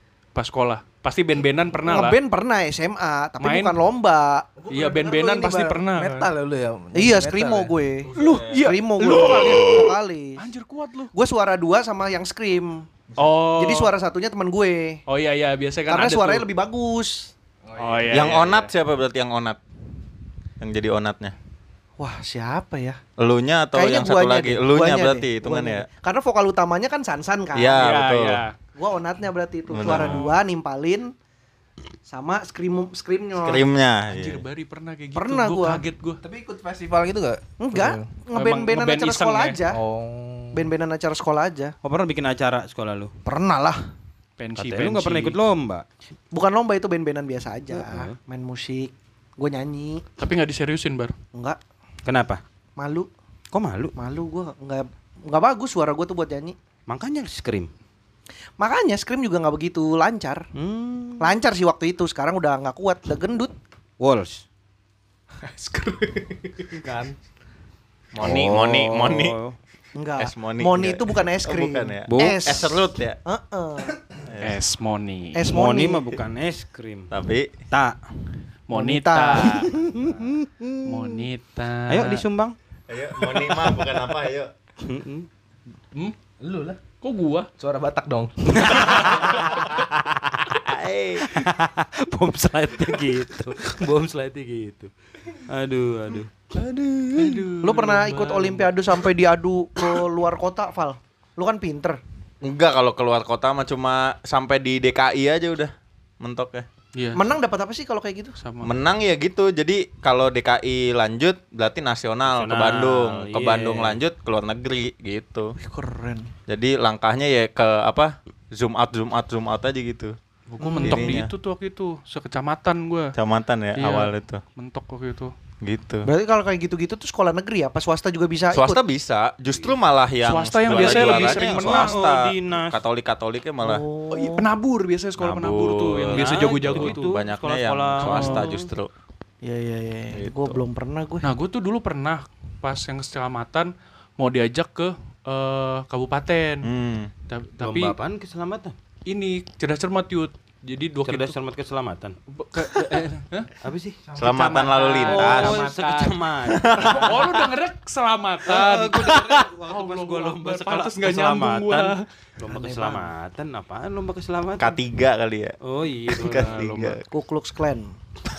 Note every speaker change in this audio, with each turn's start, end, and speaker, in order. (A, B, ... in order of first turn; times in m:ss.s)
0:00.4-0:02.2 A
0:01.9-0:04.5 B
0:03.4-0:03.8 A
0:04.6-0:07.8 C
0:04.7-0:06.3 A
0:07.0-0:10.4 B
0:08.1-0:11.1 A
0:08.2-0:08.6 D
0:11.1-0:12.9 B
0:13.2-0:13.9 A
0:13.5-0:15.0 B
0:15.1-0:16.5 A
0:15.9-0:17.3 B
0:17.7-0:18.2 C
0:17.8-0:18.7 A
0:18.1-0:19.6 D
0:20.6-0:21.4 D
0:22.0-0:23.0 B
0:23.2-0:25.9 D
0:23.7-0:27.9 B
0:27.5-0:28.4 D
0:27.8-0:28.5 A
0:28.8-0:31.1 B
0:29.7-0:30.4 D
0:29.8-0:30.3 A
0:32.1-0:33.7 B
0:33.4-0:34.4 D
0:34.1-0:36.2 A
0:35.2-0:35.8 B
0:36.2-0:38.1 C
0:37.6-0:39.8 B
0:38.3-0:39.6 A
0:39.7-0:40.7 C
0:40.5-0:41.8 B
0:41.8-0:43.1 E
0:43.3-0:43.8 B
0:44.4-0:45.4 A
0:44.6-0:45.8 E
0:46.3-0:50.0 B
0:47.7-0:48.2 E
0:50.2-0:51.1 A
0:51.3-0:51.6 B
0:52.0-0:52.4 E
0:52.8-0:53.1 B
0:53.5-0:53.9 E
0:54.0-0:56.6 B
0:56.9-0:57.7 E
0:58.6-1:00.5 B
1:00.6-1:01.3 E
1:01.2-1:03.5 B
1:04.0-1:04.5 E
1:05.4-1:07.2 C
1:08.1-1:09.4 D
1:08.2-1:09.6 E
1:10.0-1:14.0 B
1:10.2-1:13.2 D
1:12.1-1:12.6 E
1:14.2-1:14.6 D
1:14.4-1:15.5 A
1:15.3-1:16.1 B
1:15.5-1:17.1 E
1:17.1-1:17.5 D
1:17.7-1:18.0 E
1:18.7-1:19.7 A
1:18.7-1:20.7 B
1:19.3-1:19.7 D
1:20.8-1:22.2 A
1:21.9-1:22.6 E
1:22.9-1:24.5 D
1:24.8-1:25.3 E
1:26.4-1:26.8 C
1:27.0-1:27.5 A
1:27.6-1:28.6 C
1:28.5-1:29.4 E
1:29.3-1:31.3 D
1:31.2-1:36.3 E
1:36.5-1:37.5 D
1:37.2-1:38.8 A
1:37.6-1:42.0 B
1:42.4-1:46.7 D
1:47.0-1:47.2 A
1:47.2-1:48.4 B
1:48.4-1:48.7 A
1:48.6-1:55.6 D
1:52.3-1:54.0 E
1:55.6-1:56.3 B
1:56.5-2:00.2 D
2:00.5-2:03.1 A
2:00.6-2:01.2 B
2:00.8-2:01.3 D
2:03.2-2:04.4 D
2:03.8-2:05.3 A
2:05.6-2:06.1 D
2:06.1-2:08.8 B
2:08.5-2:13.8 D
2:10.2-2:12.0 A
2:10.7-2:12.8 E
2:13.6-2:14.5 B
2:14.1-2:17.1 A
2:15.2-2:18.9 D
2:16.1-2:18.7 E
2:18.0-2:18.5 A
2:19.4-2:21.2 B
2:20.1-2:20.6 D
2:21.2-2:26.7 A
2:26.6-2:27.1 D
2:27.3-2:28.0 A
2:27.6-2:28.8 E
2:29.1-2:31.4 A
2:31.0-2:32.2 E
2:32.3-2:33.5 A
2:33.6-2:37.1 E
2:34.1-2:34.5 C
2:34.2-2:35.8 D
2:34.2-2:36.2 A
2:36.5-2:37.4 D
2:36.8-2:39.1 A
2:38.4-2:44.8 E
2:39.7-2:42.0 A
2:42.5-2:43.1 B
2:44.6-2:45.6 D
2:45.6-2:46.6 E
2:46.1-2:47.0 D
2:46.1-2:47.0 A
2:47.1-2:47.9 B